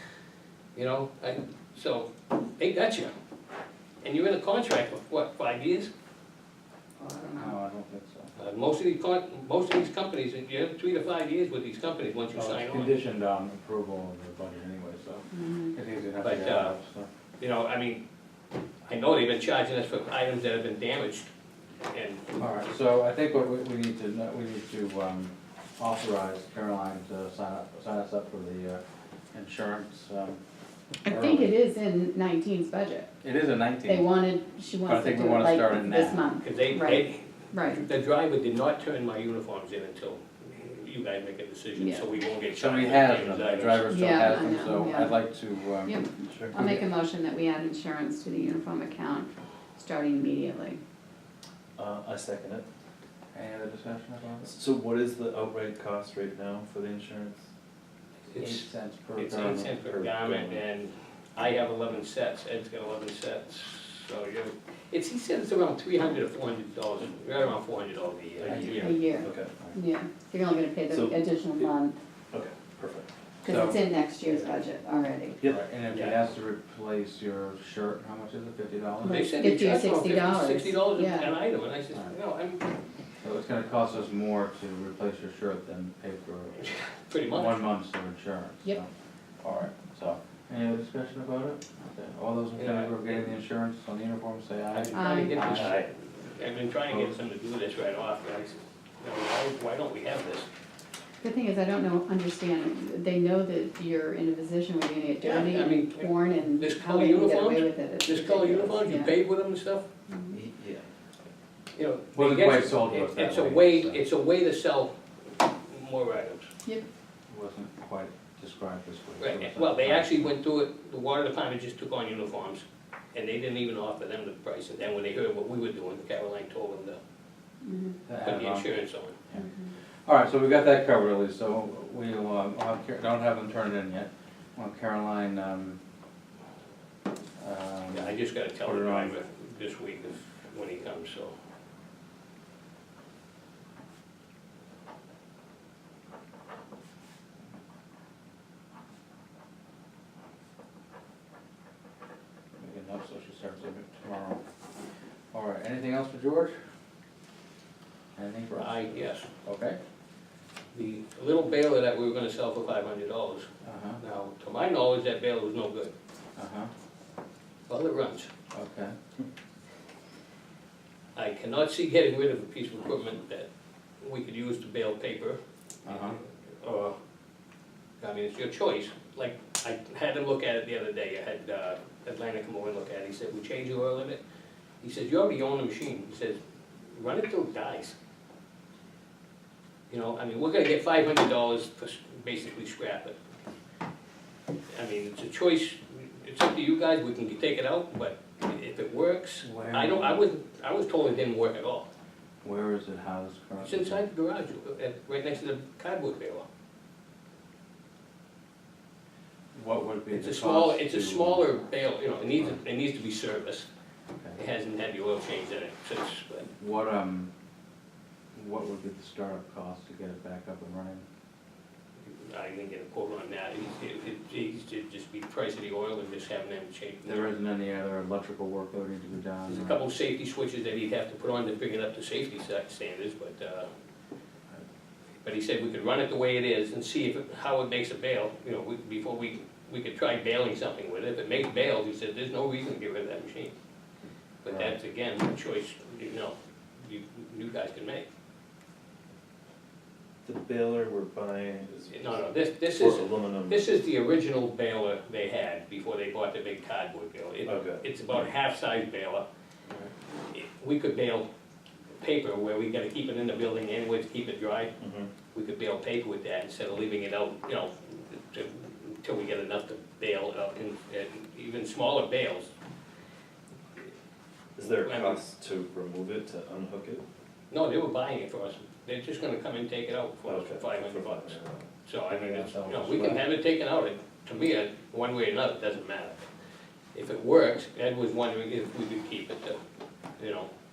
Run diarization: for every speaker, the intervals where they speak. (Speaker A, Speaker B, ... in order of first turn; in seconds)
Speaker A: 0.8-3.1, 4.0-5.9, 8.4-13.0, 16.2-16.8, 17.4-18.0, 18.9-21.3, 21.9-22.4, 36.4-44.0, 58.3-68.9, 75.9-76.3, 79.0-82.6, 86.7-87.7, 92.5-93.3, 94.7-100.5, 105.2-109.8, 111.8-116.5, 119.2-127.0, 128.2-129.2, 137.9-141.3, 158.5-159.3, 160.7-163.5, 164.0-165.9, 167.7-168.3, 171.2-173.5, 174.0-177.0, 178.0-184.2, 184.8-188.0, 189.9-193.2, 194.7-201.9, 203.6-206.5, 210.1-213.7, 214.4-216.5, 222.0-227.3, 229.5-233.7, 235.2-243.5, 244.4-248.1, 251.9-259.3, 260.3-261.3, 262.0-264.7, 265.3-272.5, 274.9-275.2, 277.5-286.3, 286.9-289.6, 290.2-290.5
Speaker B: 7.0-7.5, 15.3-15.7, 31.1-33.1, 33.9-37.8, 41.8-42.1, 43.9-45.2, 45.8-50.8, 68.8-72.0, 73.4-75.4, 79.2-81.3, 94.9-95.5, 101.2-109.1, 110.1-110.4, 127.6-128.0
Speaker C: 7.3-8.3, 12.3-17.1, 22.4-28.8, 29.3-30.4, 31.1-31.6, 33.2-34.1, 34.9-36.3, 42.5-46.0, 46.5-46.9, 53.3-54.5, 58.4-59.8, 68.5-69.0, 73.4-73.8, 75.4-79.3, 83.2-86.7, 87.2-95.9, 96.9-97.2, 112.1-114.0, 117.3-120.3, 128.1-128.7, 130.1-135.8, 137.4-139.2, 152.6-154.4, 155.3-156.6, 158.2-159.8, 163.6-164.0, 166.4-166.7, 168.5-169.0, 175.8-176.2, 199.4-200.2, 202.4-204.0, 209.5-211.5, 216.6-217.3, 218.3-221.0, 227.1-229.8, 244.4-244.8, 282.1-283.3
Speaker D: 46.2-46.5, 51.8-52.7, 54.4-57.5, 59.9-60.6, 68.4-69.6, 70.9-71.2, 72.3-73.1, 110.3-110.9, 250.2-252.2, 252.8-253.6, 257.4-257.8, 264.8-265.1, 274.6-277.0, 280.2-281.7